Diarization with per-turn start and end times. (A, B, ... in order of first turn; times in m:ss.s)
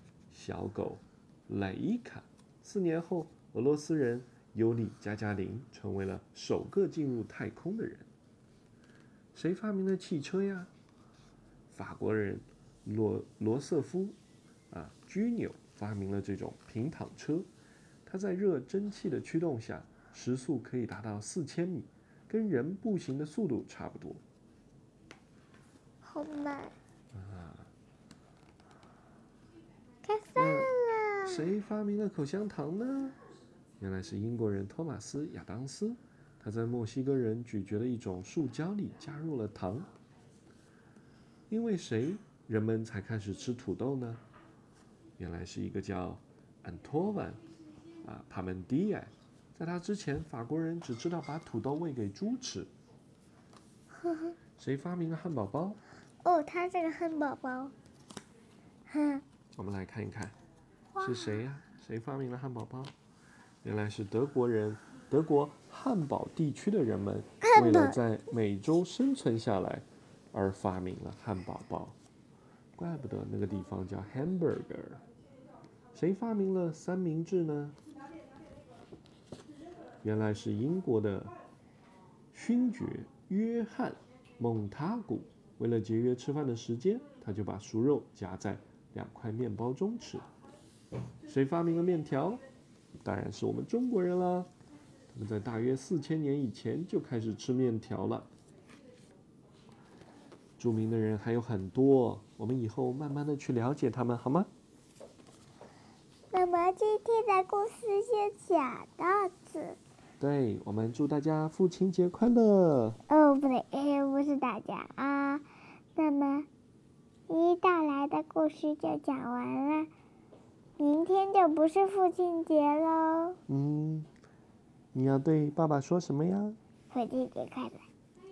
0:00.3-0:08.1 A
0:09.3-0:10.7 A
0:11.7-0:14.2 A
0:14.7-0:17.5 A
0:18.1-0:24.2 A
0:26.0-0:26.8 B
0:27.1-0:27.7 A
0:30.0-0:31.4 B
0:30.4-0:33.2 A
0:33.8-0:39.9 A
0:41.5-0:44.2 A
0:45.2-0:47.4 A
0:48.0-0:52.7 A
0:53.9-0:54.4 B
0:54.6-0:55.8 A
0:56.2-0:57.8 B
0:58.9-0:59.2 B
0:59.6-1:00.4 A
1:00.9-1:01.4 B
1:01.0-1:02.9 A
1:03.6-1:12.0 A
1:07.4-1:08.0 B
1:12.8-1:15.0 A
1:15.9-1:17.8 A
1:20.0-1:21.3 A
1:22.3-1:30.3 A
1:31.3-1:32.4 A
1:33.0-1:34.5 A
1:35.1-1:38.3 A
1:40.6-1:44.5 A
1:46.3-1:49.8 B
1:50.2-1:53.0 A
1:53.1-1:56.5 B
1:57.3-1:59.9 B
2:00.8-2:03.4 B
2:03.5-2:04.1 A
2:04.9-2:06.6 A
2:06.9-2:07.9 B